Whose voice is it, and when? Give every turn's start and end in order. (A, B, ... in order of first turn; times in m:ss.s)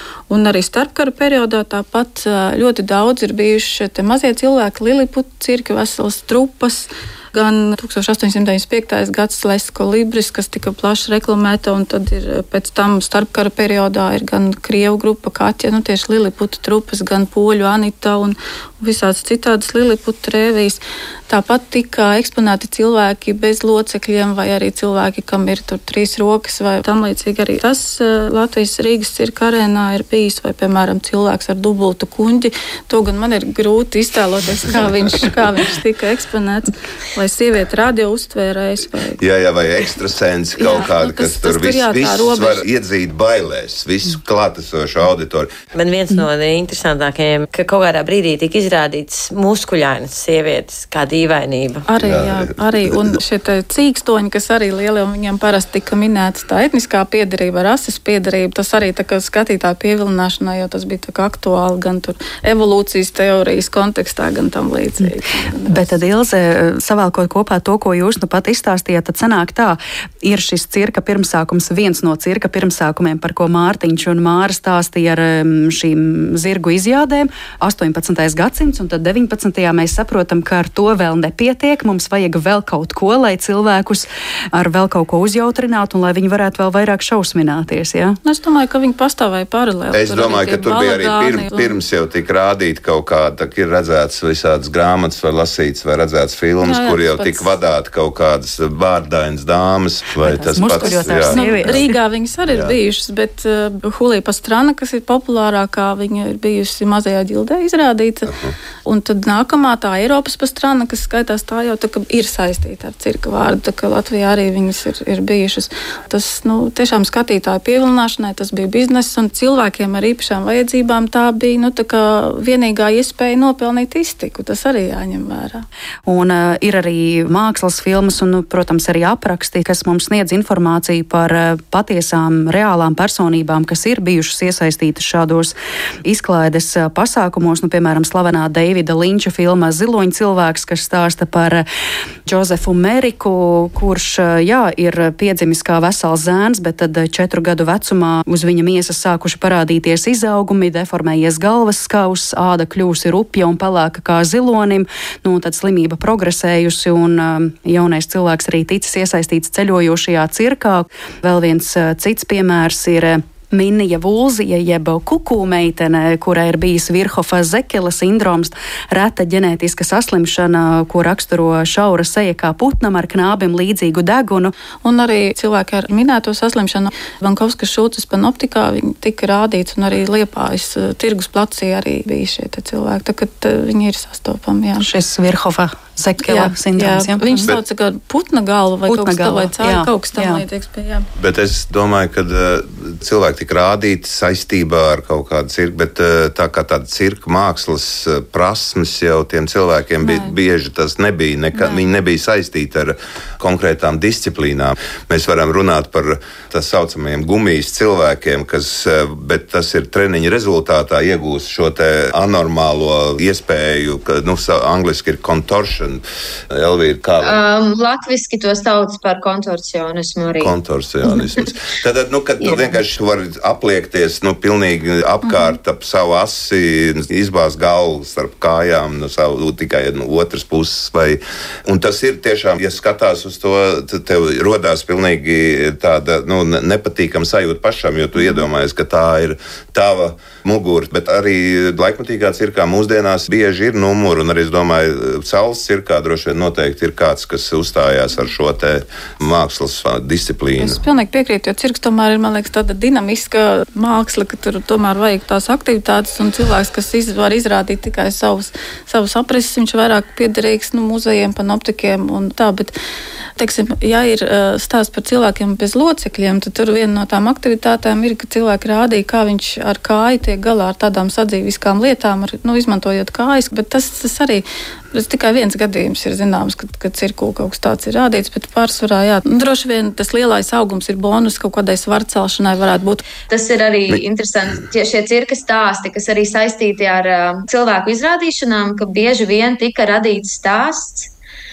0:00.3-0:39.2 A
0:39.2-0:45.5 B
0:40.6-0:42.6 A
0:45.7-0:51.9 C
0:51.9-1:05.9 A
0:52.0-0:53.2 B
1:05.6-1:28.2 D
1:28.2-1:31.8 A
1:29.9-1:41.9 B
1:36.6-1:37.5 A
1:40.2-1:41.9 D
1:40.7-2:05.6 A
1:42.5-1:42.8 B
1:48.3-1:48.5 B
2:06.1-2:21.6 D
2:22.3-2:54.5 D
2:54.8-3:04.9 A
3:04.8-3:07.5 D
3:06.2-3:11.1 A
3:08.9-3:10.4 D
3:11.2-3:37.4 B
3:20.0-3:20.4 A
3:21.6-3:21.8 A
3:37.2-3:40.6 E
3:40.4-4:10.8 B
3:45.2-3:45.6 A
4:10.6-4:22.7 A
4:23.4-4:43.0 A
4:43.3-4:51.1 E